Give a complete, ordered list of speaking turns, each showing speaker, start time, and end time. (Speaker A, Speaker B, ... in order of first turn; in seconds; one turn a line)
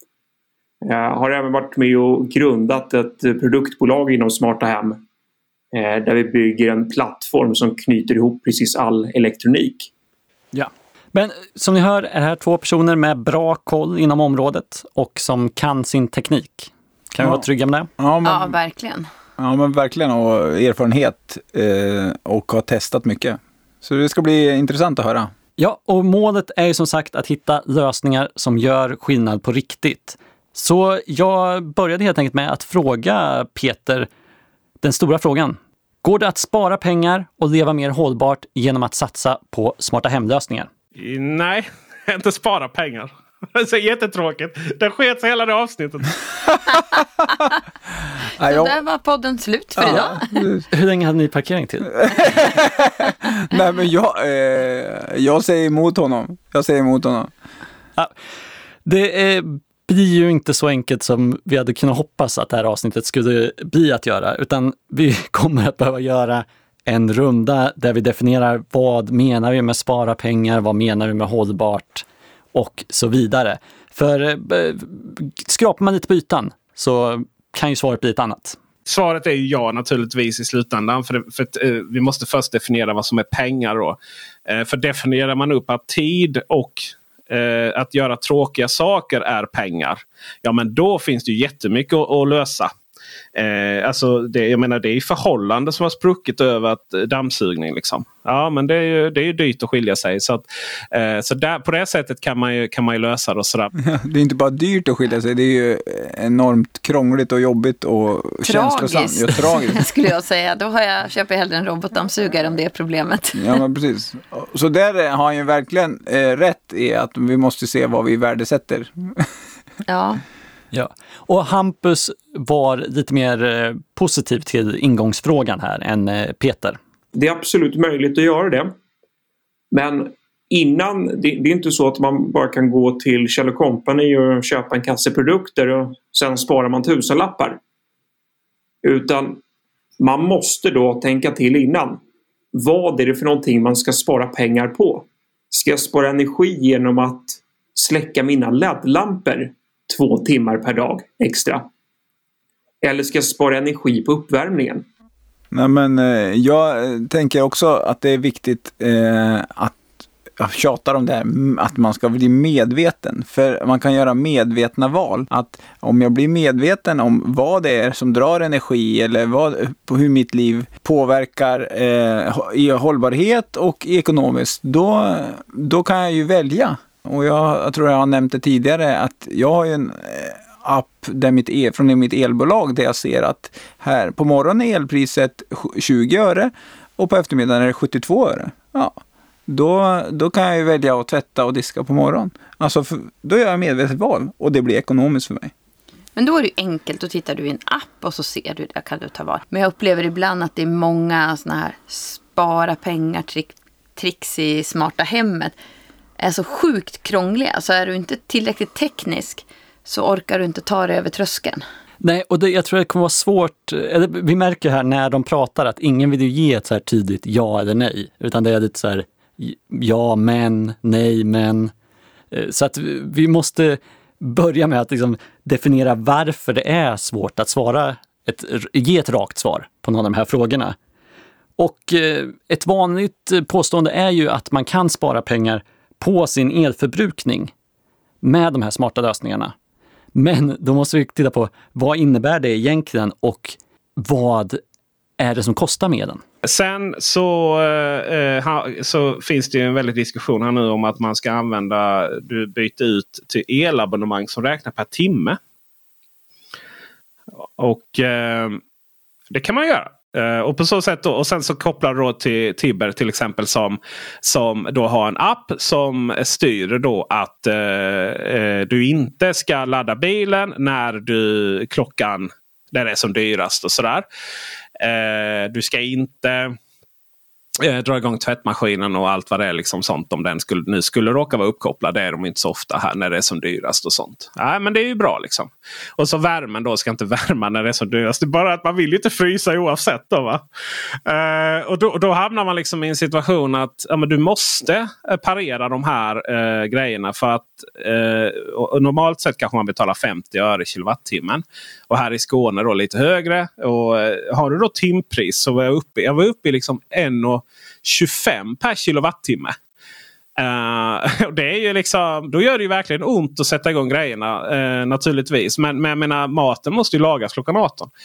Speaker A: 0.8-5.0
Speaker A: 5.7-9.9
Speaker B: 10.5-17.9
Speaker C: 17.2-17.5
Speaker C: 18.0-18.6
Speaker D: 18.2-19.1
Speaker C: 19.4-25.3
Speaker B: 25.6-34.1
Speaker B: 34.8-40.7
Speaker E: 41.0-46.5
Speaker C: 48.4-48.8
Speaker D: 48.4-50.3
Speaker C: 49.8-50.6
Speaker B: 49.9-52.5
Speaker C: 52.0-57.3
Speaker B: 58.9-78.6
Speaker E: 78.9-92.7
Speaker E: 93.3-103.7
Speaker C: 103.8-109.8
Speaker D: 108.4-113.6
Speaker C: 113.3-119.3
Speaker D: 119.9-120.2
Speaker B: 120.7-126.8
Speaker A: 127.1-128.7
Speaker A: 129.7-137.6
Speaker A: 138.8-139.4
Speaker A: 140.0-142.0
Speaker A: 142.5-151.7
Speaker A: 152.8-154.8
Speaker C: 155.5-195.5
Speaker D: 196.2-205.6
Speaker D: 206.2-211.6
Speaker B: 212.0-221.7
Speaker B: 222.3-230.8
Speaker B: 231.6-237.5
Speaker B: 238.2-239.5
Speaker B: 240.1-244.6
Speaker B: 245.2-246.2
Speaker E: 246.4-255.4
Speaker E: 257.4-258.6
Speaker E: 259.3-274.1
Speaker E: 274.8-276.6
Speaker E: 277.6-290.4
Speaker E: 291.1-309.6
Speaker E: 310.4-317.9